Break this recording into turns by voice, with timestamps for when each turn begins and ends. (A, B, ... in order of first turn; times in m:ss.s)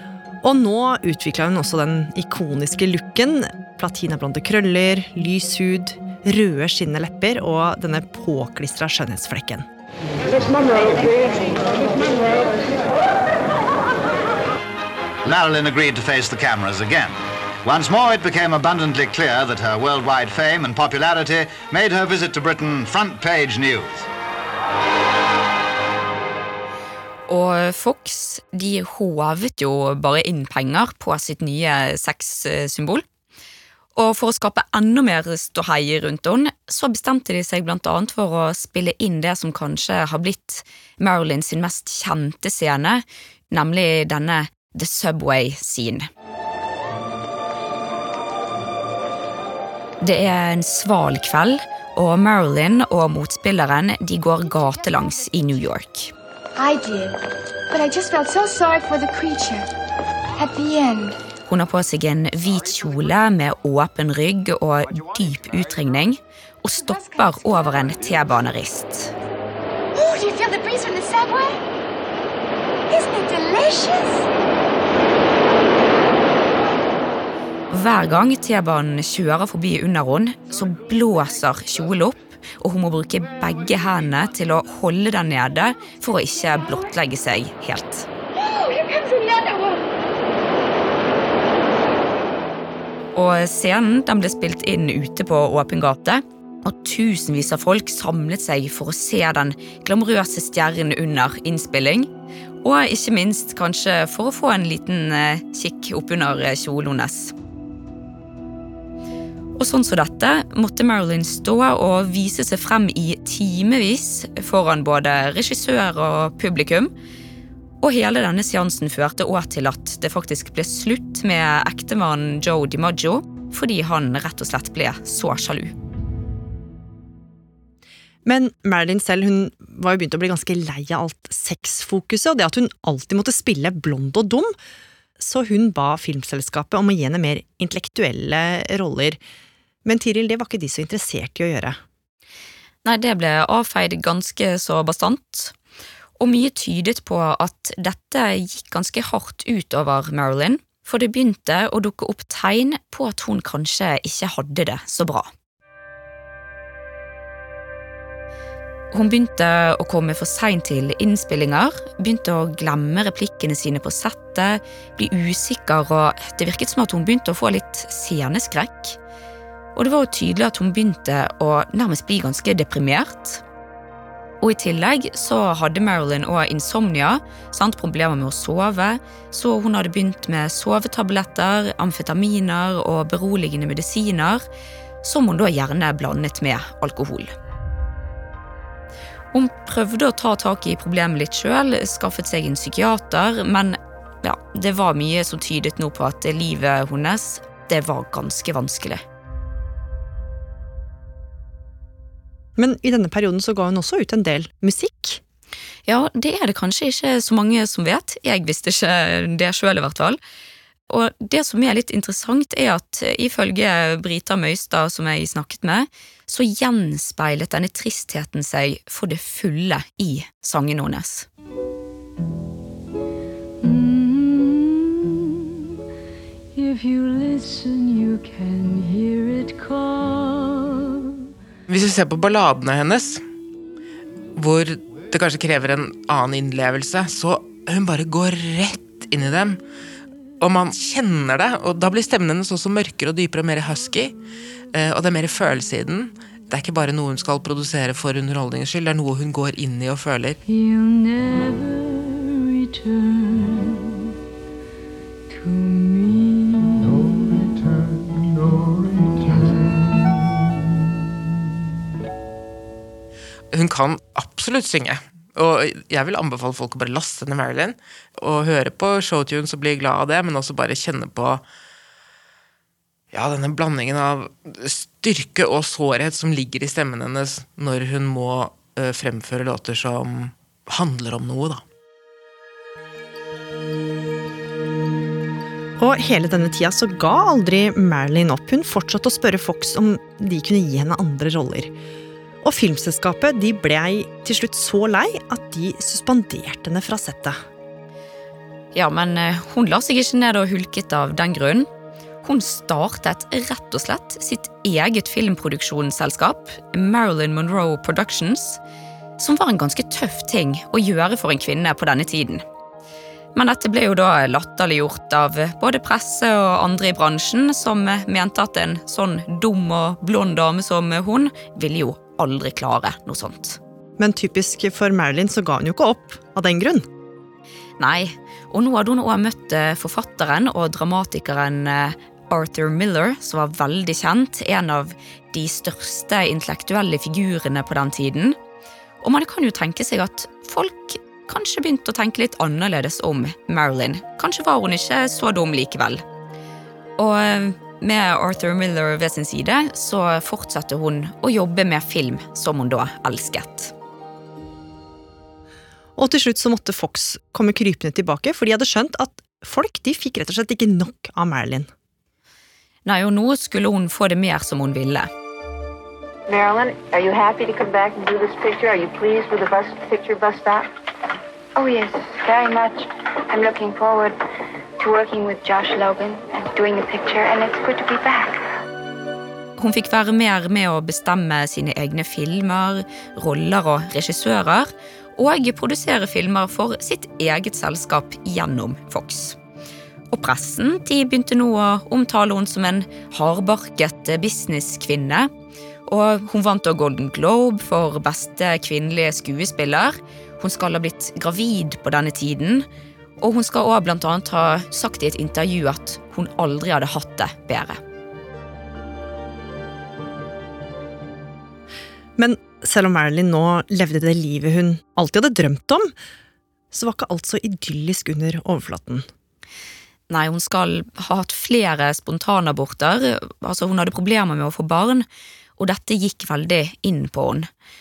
0:00.4-0:09.7 A
0:15.2-0:24.1 B
0:27.3-0:33.0 C
0:34.0-0:46.1 C
0:50.0-0:56.1 C
0:56.6-0:57.2 D
0:57.7-0:59.7 D
1:00.4-1:01.2 D
1:01.5-1:09.1 C
1:06.8-1:07.3 D
1:10.0-1:11.6 D
1:12.9-1:14.3 D
1:17.7-1:28.1 C
1:28.4-1:29.8 D
1:33.2-1:42.1 C
1:42.6-1:47.3 C
1:49.6-1:56.9 C
1:57.8-2:05.8 C
2:08.2-2:14.5 A
2:15.2-2:19.2 A
2:19.8-2:21.8 A
2:22.8-2:25.5 C
2:26.2-2:35.3 C
2:38.9-2:49.0 C
2:49.8-2:53.4 C
2:54.4-3:04.4 C
3:05.0-3:07.3 C
3:09.3-3:19.0 C
3:22.6-3:25.2 A
3:25.9-3:30.2 C
3:30.9-3:41.3 C
3:43.6-3:45.7 E
3:46.6-3:51.1 E
3:51.7-3:53.2 F
3:54.4-3:59.6 F
4:00.4-4:04.2 F
4:04.7-4:10.4 F
4:10.5-4:14.1 E
4:15.3-4:20.0 E
4:23.5-4:31.4 F
4:33.1-4:41.6 F
4:45.8-4:51.7 A
4:52.4-4:57.4 A
4:58.7-5:01.7 C
5:02.2-5:08.6 C
5:09.2-5:12.4 C
5:13.4-5:23.6 C
5:24.0-5:26.9 A
5:27.8-5:38.4 C
5:39.0-5:46.0 C
5:47.0-5:53.7 C
5:56.0-6:01.7 A
6:02.9-6:05.1 C
6:06.3-6:10.7 G
6:11.6-6:14.2 G
6:14.8-6:18.4 G
6:19.6-6:29.4 C
6:30.1-6:35.3 C
6:35.9-6:42.7 C
6:43.2-6:47.8 C
6:52.2-6:55.9 A
6:56.7-6:59.1 A
7:00.1-7:05.0 C
7:05.6-7:07.5 C